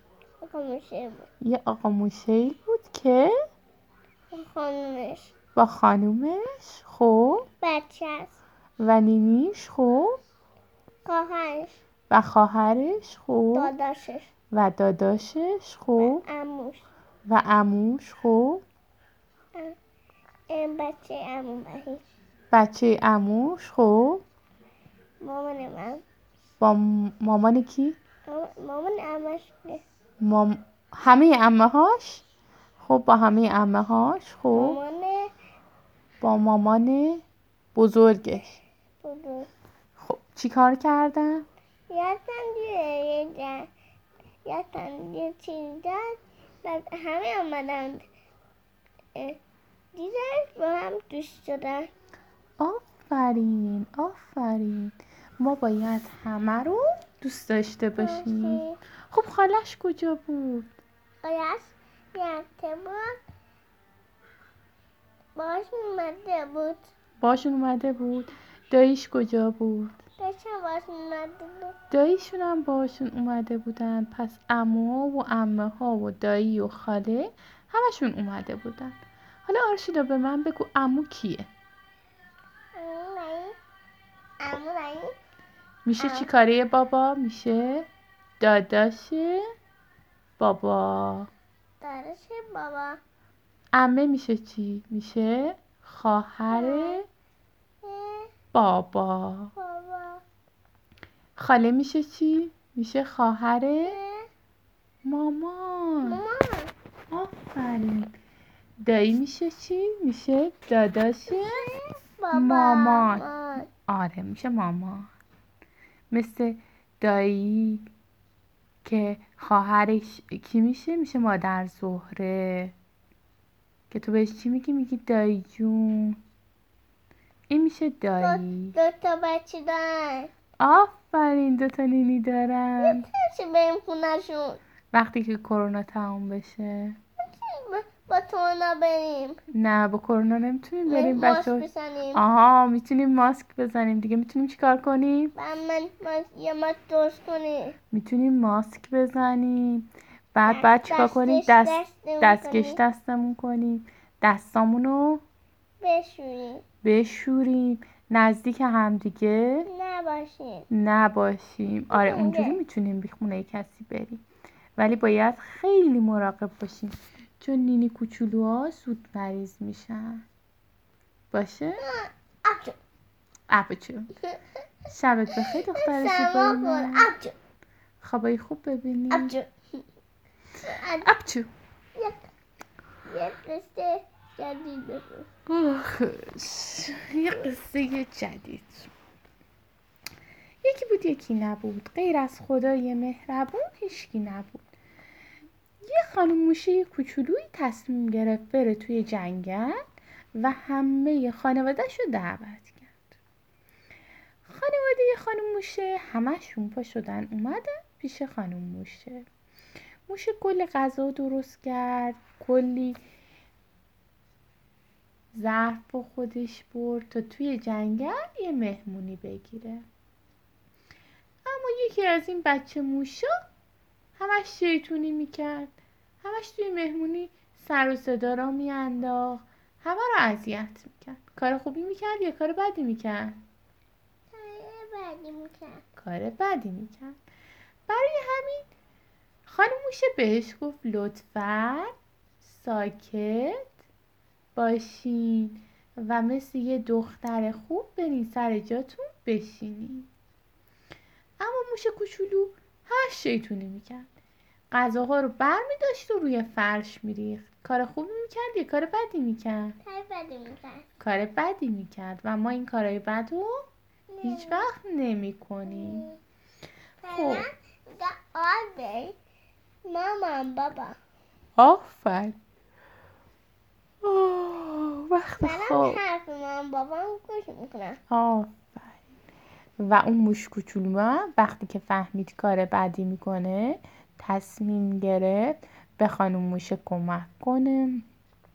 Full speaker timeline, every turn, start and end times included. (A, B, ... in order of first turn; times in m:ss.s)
0:00.4-0:01.2 A
0:01.4-0:03.3 B
0:04.3-0:05.3 A
0:05.6-0:07.5 B
0:07.6-0:08.3 A
0:08.8-0:10.2 B
0:11.0-0:11.7 A
0:12.1-0:13.7 B
0:13.5-0:14.3 A
0:14.5-0:16.2 B
0:16.0-0:16.8 A
0:17.3-0:18.6 B
0:20.5-0:22.0 A
0:22.5-0:24.2 B
0:25.2-0:26.0 A
0:26.6-0:28.0 B
0:28.3-0:29.8 A
0:30.2-0:32.2 B
0:32.8-0:34.8 B
0:34.5-0:35.3 A
0:36.2-0:37.2 B
0:37.7-0:38.6 B
0:39.0-0:39.5 A
0:40.0-0:41.4 B
0:41.9-0:43.7 A
0:44.4-0:48.0 A
0:49.9-0:51.9 A
0:52.6-1:00.7 B
0:58.0-0:58.8 A
1:01.2-1:03.2 A
1:05.4-1:06.8 A
1:07.2-1:10.0 B
1:10.2-1:11.7 A
1:11.9-1:21.5 B
1:22.8-1:23.5 A
1:24.4-1:25.1 A
1:25.8-1:27.8 B
1:26.0-1:26.3 A
1:28.4-1:29.4 B
1:30.4-1:31.3 B
1:31.8-1:33.0 A
1:33.8-1:37.0 B
1:36.5-1:37.0 A
1:37.8-1:38.3 A
1:38.5-1:39.5 B
1:39.6-1:40.2 A
1:41.4-1:44.0 B
1:43.9-1:44.3 A
1:45.0-1:46.2 B
1:46.0-1:46.7 A
1:47.1-1:48.1 B
1:48.8-1:51.6 B
1:51.3-1:53.7 A
1:52.3-1:55.1 B
1:56.1-1:57.9 B
1:58.8-2:02.7 B
2:03.9-2:06.2 B
2:07.5-2:08.7 B
2:08.2-2:10.3 A
2:10.6-2:13.0 B
2:12.8-2:14.6 A
2:14.9-2:17.0 B
2:17.2-2:19.4 A
2:19.5-2:25.3 B
2:20.8-2:22.2 A
2:25.4-2:27.7 A
2:27.9-2:35.2 B
2:30.4-2:32.8 A
2:35.8-2:36.6 A
2:36.8-2:39.7 B
2:39.7-2:40.6 A
2:40.7-2:44.2 B
2:41.9-2:42.6 A
2:44.8-2:50.2 B
2:51.3-2:51.8 B
2:51.8-2:52.8 A
2:53.5-2:54.1 B
2:54.9-2:57.1 B
2:55.3-2:57.3 A
2:58.0-2:59.3 B
2:59.1-2:59.8 A
3:00.6-3:01.1 A
3:01.0-3:01.5 B
3:01.9-3:02.2 A
3:03.1-3:05.3 A
3:05.5-3:08.9 B
3:10.6-3:14.6 B
3:15.8-3:19.8 B
3:20.4-3:23.0 B
3:24.4-3:29.2 B
3:30.1-3:33.0 B
3:35.3-3:39.8 B
3:41.4-3:43.3 B
3:44.2-3:53.4 B
3:54.3-3:55.8 A
3:56.0-3:57.2 B
3:57.9-3:58.6 B
3:59.5-4:03.6 B
4:04.6-4:10.1 B
4:11.4-4:14.1 B
4:14.7-4:19.8 B
4:19.8-4:20.8 A
4:21.0-4:23.6 B
4:24.1-4:24.7 A
4:24.2-4:26.1 B
4:25.7-4:26.2 A
4:27.0-4:29.2 A
4:27.1-4:27.4 B
4:29.8-4:31.0 A
4:31.6-4:32.4 B
4:34.0-4:36.0 B
4:35.4-4:38.0 A
4:38.1-4:39.0 B
4:39.8-4:48.0 B